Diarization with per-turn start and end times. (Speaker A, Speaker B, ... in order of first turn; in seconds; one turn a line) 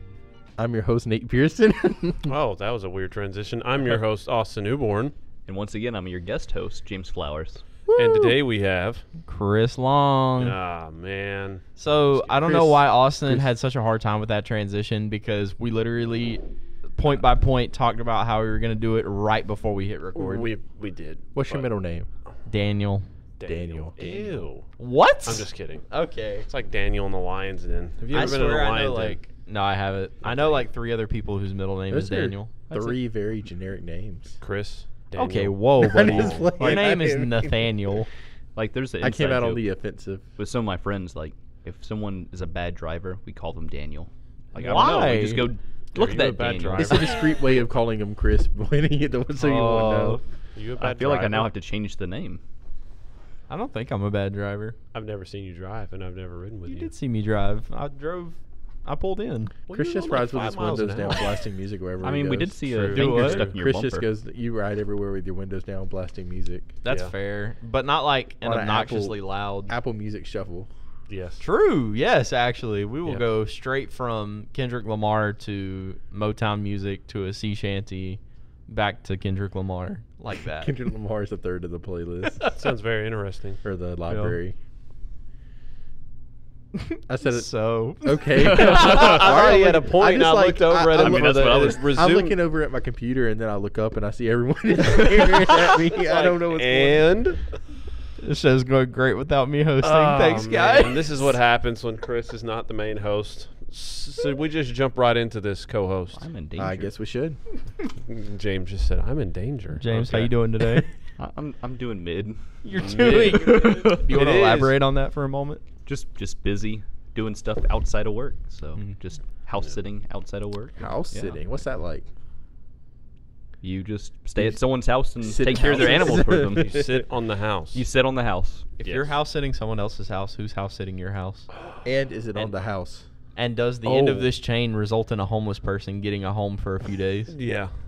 Speaker A: 0.6-2.3
Speaker B: 2.2-5.1
Speaker C: 5.5-7.6
Speaker A: 7.9-8.3
Speaker B: 8.0-9.0
Speaker D: 9.2-10.6
Speaker B: 10.4-12.4
Speaker D: 11.8-16.4
Speaker A: 12.4-13.4
Speaker D: 16.9-20.5
Speaker B: 20.1-21.7
Speaker A: 21.3-22.1
Speaker D: 22.4-23.1
Speaker B: 23.4-29.2
Speaker A: 23.4-24.3
Speaker D: 24.8-26.5
Speaker D: 28.1-32.5
Speaker B: 30.2-30.6
Speaker A: 31.9-34.4
Speaker C: 32.7-33.0
Speaker B: 34.4-36.7
Speaker D: 35.1-38.1
Speaker A: 35.8-37.9
Speaker C: 38.5-39.7
Speaker A: 39.0-40.3
Speaker C: 40.4-47.1
Speaker D: 44.6-45.5
Speaker B: 45.9-47.1
Speaker A: 46.8-50.2
Speaker D: 49.4-50.2
Speaker B: 50.5-51.5
Speaker C: 50.8-52.4
Speaker D: 53.5-54.8
Speaker B: 54.9-56.9
Speaker D: 56.6-59.5
Speaker B: 59.7-61.3
Speaker A: 59.7-62.8
Speaker C: 62.0-64.1
Speaker B: 62.7-63.6
Speaker D: 62.9-63.5
Speaker A: 63.4-66.7
Speaker D: 66.8-69.7
Speaker B: 66.8-67.1
Speaker A: 68.4-70.7
Speaker B: 71.1-71.4
Speaker D: 71.4-80.7
Speaker A: 80.4-82.5
Speaker B: 82.5-83.6
Speaker A: 83.6-84.5
Speaker D: 84.1-84.4
Speaker D: 86.9-88.9
Speaker A: 87.1-97.1
Speaker C: 88.4-89.2
Speaker B: 88.5-92.4
Speaker C: 91.0-91.8
Speaker B: 96.0-97.5
Speaker D: 98.2-101.4
Speaker B: 99.8-106.2
Speaker C: 106.1-106.9
Speaker A: 106.5-107.4
Speaker B: 108.0-110.3
Speaker D: 109.8-110.9
Speaker C: 111.2-114.1
Speaker D: 112.6-115.6
Speaker B: 112.8-114.8
Speaker C: 115.8-121.4
Speaker A: 120.8-122.0
Speaker C: 123.6-126.9
Speaker A: 125.2-127.0
Speaker B: 125.6-127.8
Speaker C: 127.7-128.7
Speaker D: 128.8-131.5
Speaker B: 128.8-129.2
Speaker A: 131.8-133.1
Speaker D: 133.3-137.3
Speaker A: 133.8-134.3
Speaker B: 137.3-137.7